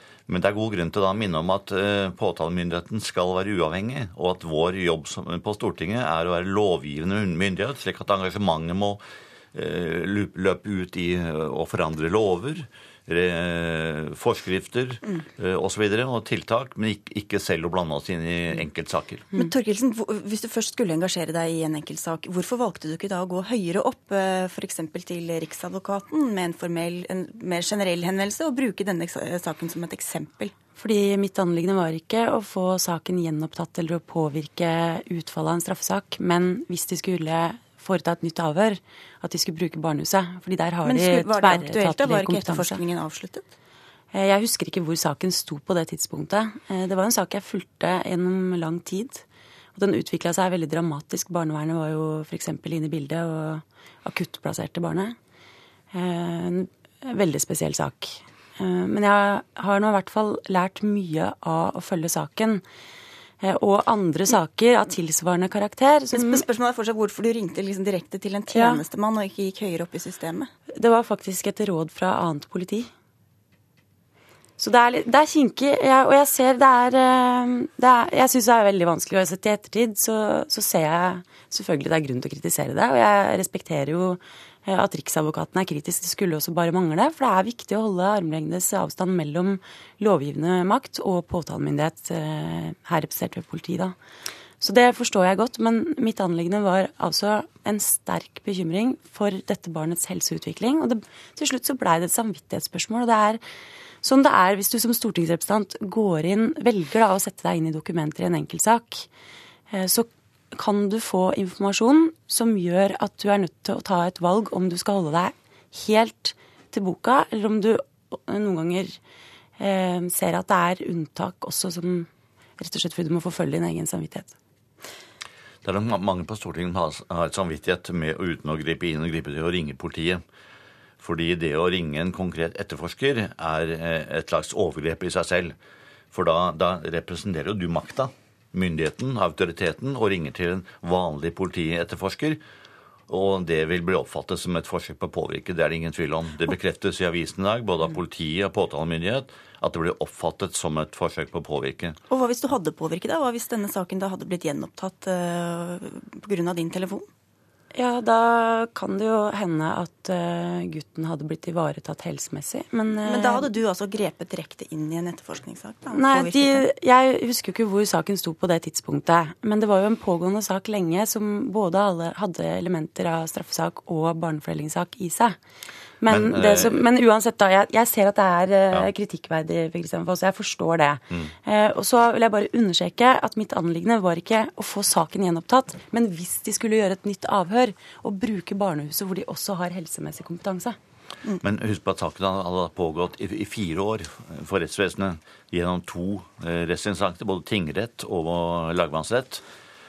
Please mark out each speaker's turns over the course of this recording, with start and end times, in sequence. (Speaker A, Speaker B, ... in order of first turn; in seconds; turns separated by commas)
Speaker A: 0.3-9.0, Speaker A: 9.5-19.3, Speaker B: 19.3-30.5, Speaker C: 30.8-42.8, Speaker B: 40.8-43.4, Speaker C: 44.1-49.2, Speaker C: 49.7-55.1, Speaker C: 55.9-62.6, Speaker C: 63.4-66.4, Speaker B: 66.1-70.5, Speaker C: 68.5-68.8, Speaker C: 70.8-72.9, Speaker C: 74.6-93.9, Speaker C: 94.6-103.4, Speaker C: 104.0-109.1, Speaker C: 109.7-119.0, Speaker C: 119.6-124.3, Speaker A: 125.6-130.2, Speaker A: 131.0-135.5, Speaker A: 136.1-142.4, Speaker A: 143.1-152.0, Speaker B: 152.1-157.1, Speaker C: 157.7-163.5, Speaker B: 163.1-166.6, Speaker C: 165.9-175.3, Speaker C: 176.0-190.8, Speaker A: 176.1-176.8, Speaker A: 191.4-199.4